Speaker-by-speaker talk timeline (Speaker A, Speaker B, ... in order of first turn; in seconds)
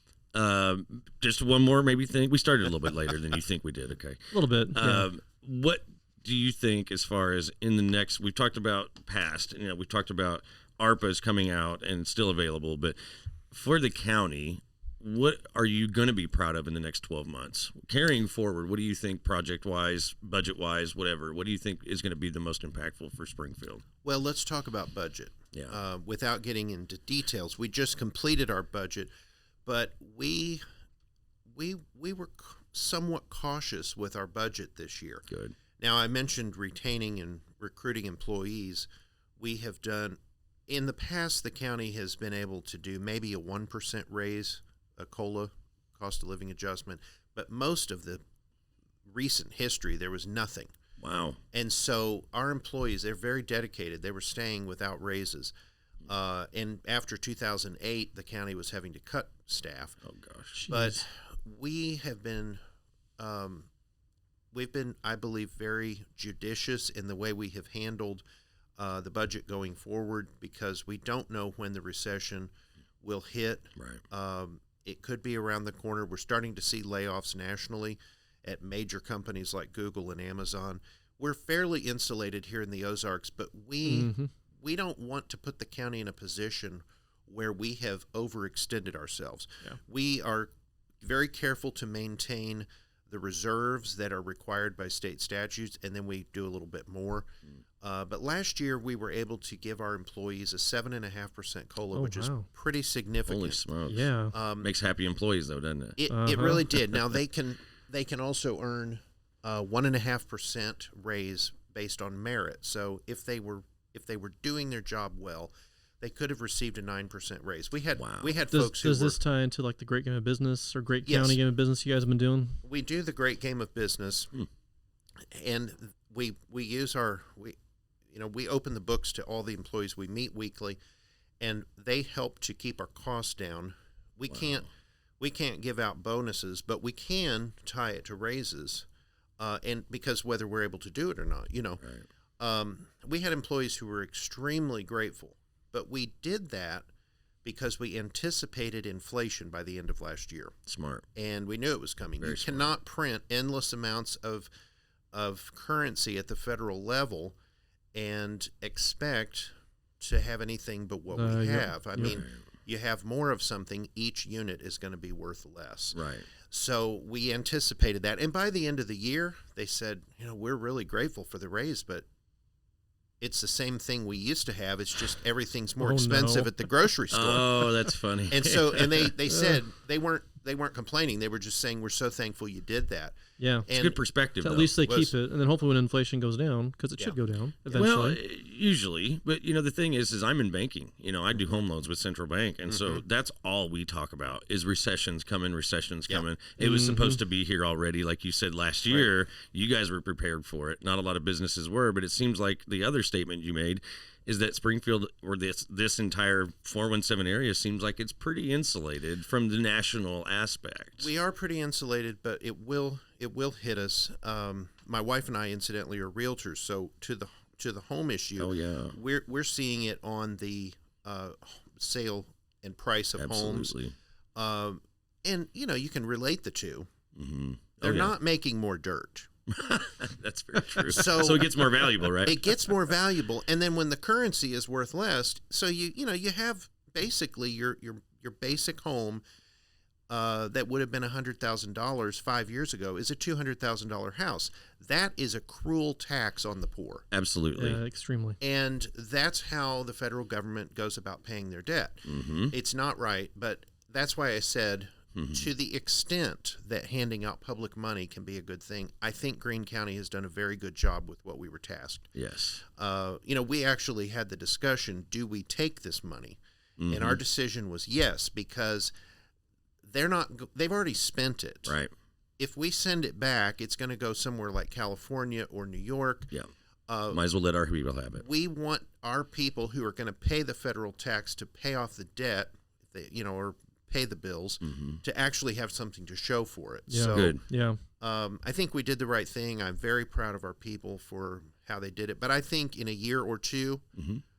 Speaker A: 0.3-4.2, 4.7-13.0, 13.5-23.8, 25.5-25.8, 35.3-35.5, 51.0-51.4, 60.0-60.6, 73.8-74.0, 103.3-106.0, 118.0-118.3, 134.3-134.6, 150.7-151.0, 152.2-152.8, 162.0-162.4, 165.9-166.3, 177.1-179.2, 183.8-184.7, 187.7-211.1, 218.4-219.0, 223.2-223.9, 227.1-228.1, 229.5-232.8, 247.1-247.8, 252.1-252.5, 255.2-255.5, 262.1-262.6, 266.8-267.2, 271.6-271.9, 277.1-278.2, 284.6-285.0, 287.1-287.4, 293.9-294.2
Speaker B: 4.3-5.1, 60.5-61.0, 83.8-84.3, 101.9-102.5, 103.9-104.3, 106.1-106.6, 118.5-122.6, 161.1-162.1, 175.8-176.6, 183.4-183.7, 184.4-188.2, 196.6-197.2, 247.6-248.4, 286.9-287.8
Speaker C: 24.0-29.1, 29.6-30.6, 31.5-35.2, 35.8-38.9, 39.4-48.2, 49.1-50.7, 51.5-55.5, 56.0-60.0, 60.7-62.6, 63.2-63.7, 64.5-68.2, 68.8-90.5, 91.0-97.3, 97.8-103.7, 104.3-104.7, 106.0-119.2, 121.0-121.4, 122.6-124.3, 125.3-127.6, 128.1-130.8, 131.4-134.7, 135.2-138.9, 139.4-141.8, 142.4-146.9, 147.4-150.5, 151.1-154.5, 155.1-157.3, 157.9-172.1, 173.2-177.7, 178.3-184.0, 184.7-185.1, 192.7-193.0, 211.0-223.8, 224.3-226.9, 227.8-229.3, 230.9-239.2, 240.1-247.1, 248.4-262.1, 262.7-268.9, 269.8-271.7, 272.4-276.3, 276.9-277.2, 278.2-287.4, 288.0-293.8